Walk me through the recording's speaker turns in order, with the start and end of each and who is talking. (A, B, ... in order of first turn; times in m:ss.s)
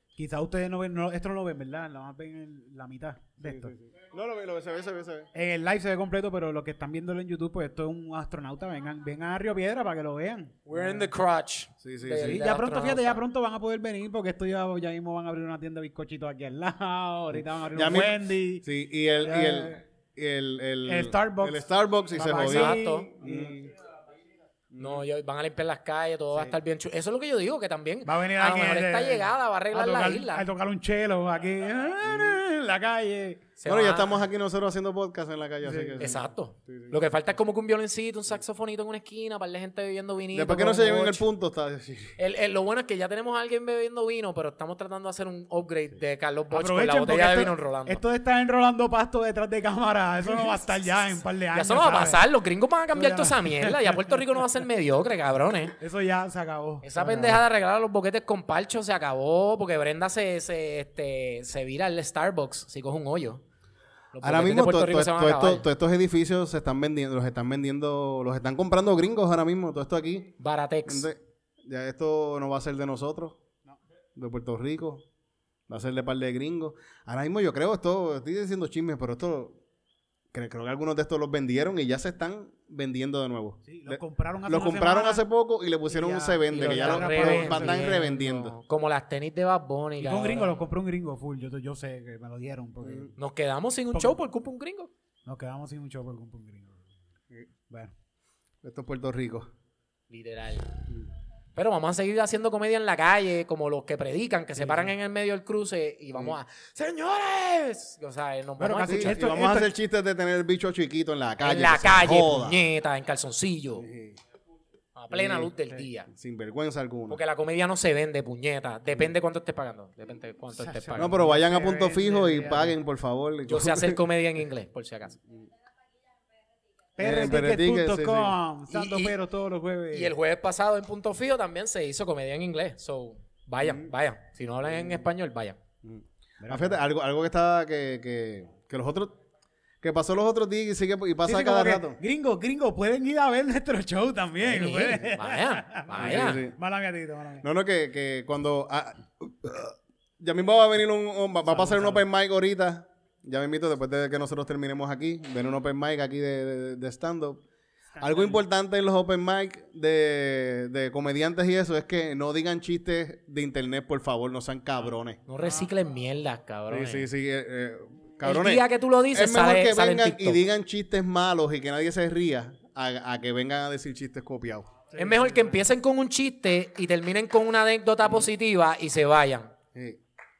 0:00.2-0:03.7 A
0:03.4-0:05.3 B
0:05.3-0:11.1 A
0:10.7-0:13.2 C
0:11.8-0:12.4 B
0:12.2-0:18.6 A
0:17.7-0:23.7 B
0:19.2-0:19.8 A
0:20.8-0:23.6 A
0:22.3-0:23.1 C
0:24.7-0:25.0 B
0:24.8-0:30.4 C
0:28.0-0:33.4 A
0:32.0-0:32.4 B
0:33.6-0:34.2 C
0:33.7-0:37.0 B
0:35.6-0:36.1 A
0:36.0-0:41.2 C
0:40.3-0:42.2 B
0:42.2-0:48.0 C
0:46.5-0:52.3 A
0:50.3-0:50.6 C
0:51.5-0:55.8 C
0:52.9-0:54.2 A
0:55.8-0:57.4 A
0:56.8-1:03.4 C
1:04.1-1:05.7 C
1:04.2-1:10.3 B
1:10.4-1:11.1 C
1:10.9-1:13.4 B
1:14.2-1:15.0 B
1:15.7-1:19.6 B
1:20.3-1:28.6 B
1:23.6-1:25.2 A
1:25.9-1:28.2 A
1:26.5-1:30.6 C
1:30.0-1:33.1 A
1:32.8-1:33.1 B
1:33.2-1:34.9 C
1:33.9-1:34.2 A
1:35.3-1:36.9 A
1:38.6-1:39.5 B
1:40.1-1:40.7 C
1:41.6-1:49.3 C
1:44.6-1:44.9 A
1:48.6-1:49.7 A
1:48.9-1:52.6 B
1:51.4-1:53.9 C
1:53.8-1:54.2 B
1:55.0-1:56.1 C
1:55.1-1:55.5 B
1:56.1-1:57.2 B
1:57.1-2:01.2 C
2:00.6-2:02.8 A
2:01.0-2:04.0 B
2:03.5-2:05.2 C
2:07.0-2:10.1 A
2:07.0-2:08.4 B
2:08.7-2:09.2 C
2:09.9-2:15.6 C
2:13.6-2:13.9 B
2:14.7-2:15.0 B
2:15.8-2:19.1 B
2:16.4-2:16.8 A
2:19.8-2:22.0 B
2:21.2-2:27.5 A
2:24.5-2:26.4 C
2:26.0-2:26.5 B
2:27.4-2:37.4 B
2:31.5-2:32.0 A
2:37.9-2:38.4 A
2:38.0-2:45.2 B
2:45.3-2:47.1 C
2:45.4-2:45.7 A
2:46.7-2:54.7 B
2:48.2-2:50.4 C
2:54.9-2:55.6 A
2:55.0-2:59.5 C